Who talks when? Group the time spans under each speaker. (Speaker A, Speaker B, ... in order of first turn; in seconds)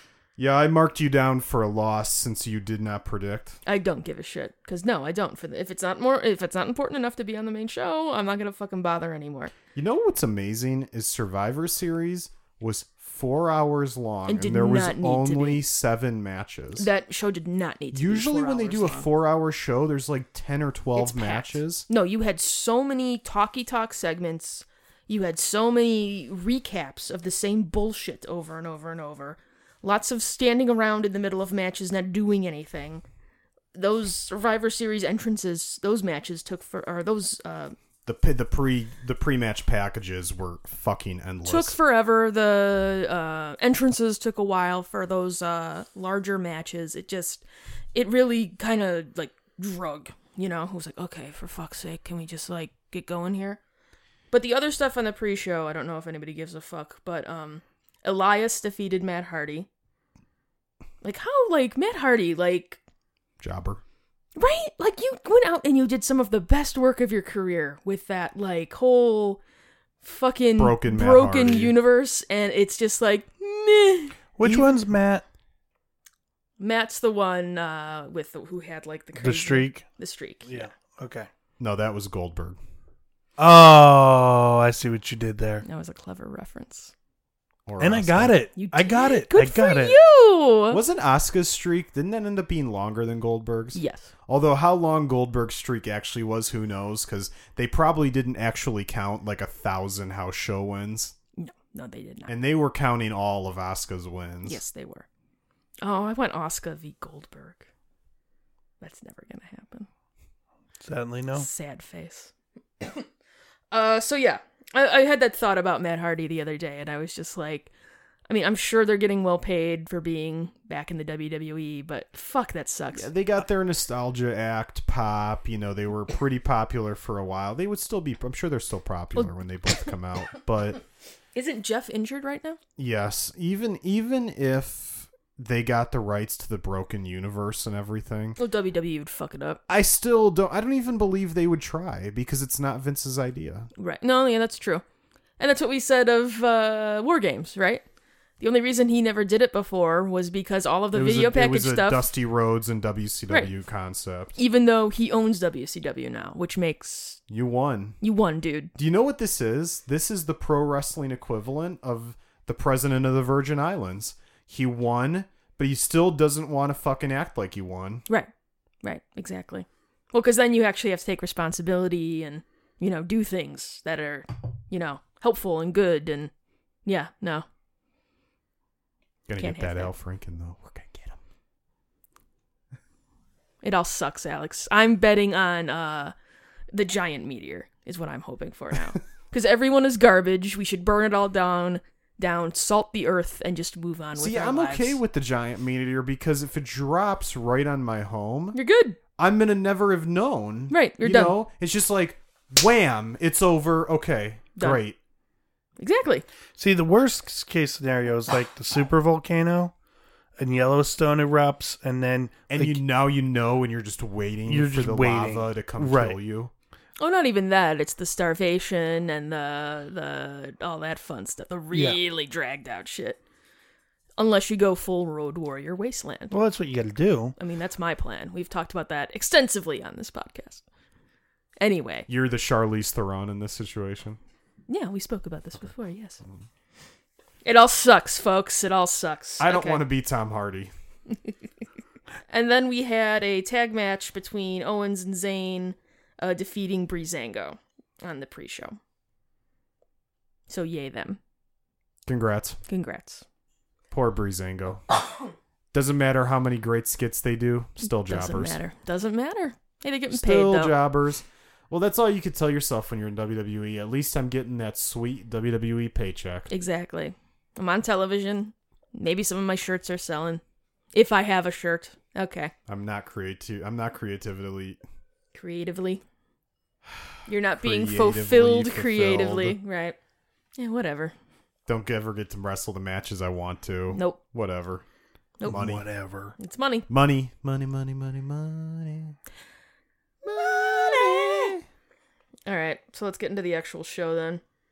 Speaker A: 0.4-3.6, 9.7-16.9, 17.9-21.9, 38.0-41.8, 63.4-63.8, 70.6-71.7, 74.4-74.7, 81.6-82.6, 87.7-88.3, 90.7-101.1, 102.3-104.6, 122.9-130.8, 132.8-138.4, 139.7-143.7, 150.9-154.3, 157.3-158.0, 158.8-168.1, 179.3-181.2, 194.2-198.6, 199.2-205.0, 212.5-216.5, 232.1-234.2, 239.4-240.7, 252.1-252.6, 253.9-254.8, 255.7-258.6, 260.1-266.5, 272.7-274.8, 277.6-279.6, 281.7-284.8, 285.4-285.9, 286.9-289.1, 290.2-291.6
Speaker B: 3.6-9.5, 14.3-15.6, 16.8-19.1, 20.9-33.0, 33.7-37.7, 41.4-53.6, 54.3-59.7, 61.0-62.8, 64.4-69.4, 70.0-74.2, 76.6-80.7, 85.6-86.9, 88.5-90.8, 93.7-94.1, 101.4-102.3, 104.5-105.0, 105.8-107.7, 108.8-109.9, 111.3-113.0, 113.7-117.7, 118.3-123.1, 131.3-132.6, 138.4-139.6, 143.8-144.8, 145.4-147.8, 148.4-152.1, 154.3-157.2, 158.0-158.7, 168.8-176.3, 176.8-177.4, 179.4-179.9, 183.6-186.1, 186.7-195.0, 198.5-199.0, 200.7-201.3, 204.6-204.8, 205.8-206.2, 217.0-223.2, 224.2-226.3, 227.4-230.6, 231.6-232.1, 234.7-236.2, 237.4-239.8, 242.3-248.8, 250.5-251.2, 252.7-253.2, 257.8-260.8, 266.5-270.4, 270.9-272.5, 275.3-276.0, 277.2-280.0, 280.6-281.1, 283.9-284.2, 286.4-286.9, 291.0-291.4, 292.4-294.4
Speaker C: 74.4-75.2, 79.2-79.8, 80.4-81.3, 83.4-85.6, 87.8-90.0, 110.8-111.5, 206.6-209.7, 210.4-212.8, 214.4-216.2, 221.7-222.0, 226.3-227.3, 285.4-286.3